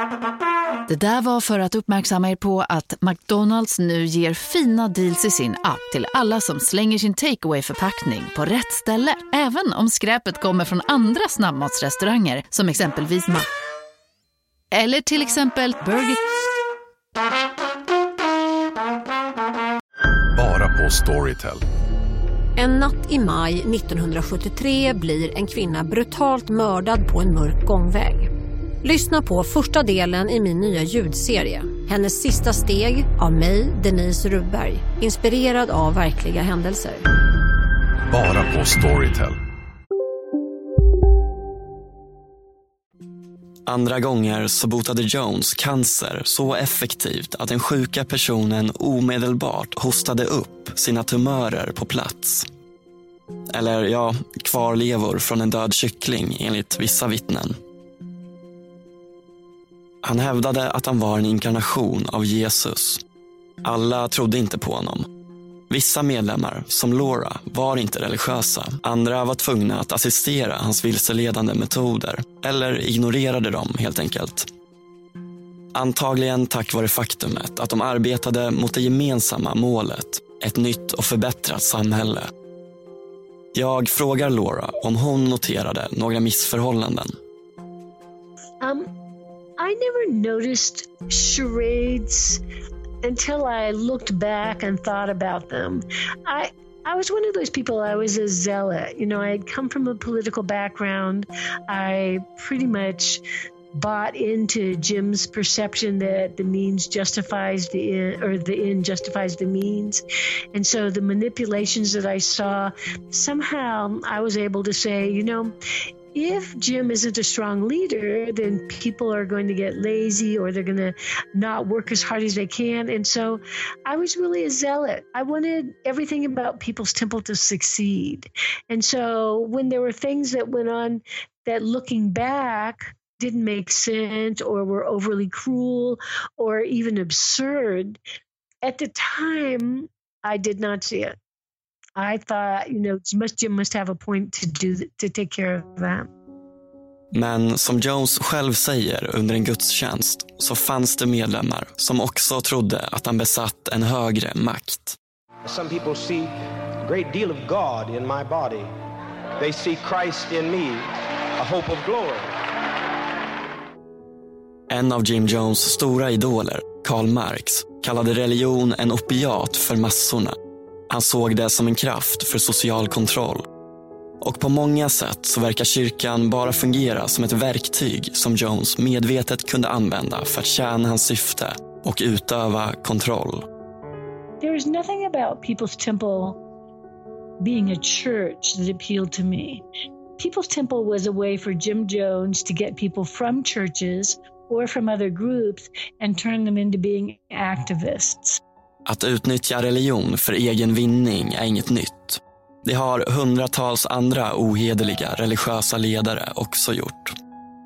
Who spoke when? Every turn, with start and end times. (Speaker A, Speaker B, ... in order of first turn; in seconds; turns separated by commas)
Speaker A: 0.9-13.5, Speaker A: 14.7-16.2, Speaker B: 20.4-21.6, Speaker C: 22.6-28.3, Speaker C: 28.8-37.0, Speaker B: 38.1-39.4, Speaker D: 43.7-52.5, Speaker D: 53.5-57.6, Speaker D: 60.0-63.0, Speaker D: 63.6-65.1, Speaker D: 65.7-74.5, Speaker D: 75.7-82.3, Speaker D: 83.5-87.1, Speaker E: 88.6-88.9, Speaker E: 89.6-92.4, Speaker E: 93.0-103.2, Speaker E: 103.7-110.0, Speaker E: 110.5-115.5, Speaker E: 116.2-138.0, Speaker E: 138.6-141.2, Speaker E: 142.0-146.1, Speaker D: 147.1-155.0, Speaker F: 155.4-158.7, Speaker F: 159.4-160.8, Speaker F: 161.4-162.3, Speaker D: 164.7-170.4, Speaker D: 170.9-173.5, Speaker D: 174.2-183.5, Speaker E: 184.4-186.4, Speaker E: 187.4-189.6, Speaker E: 190.2-198.4, Speaker D: 198.9-207.1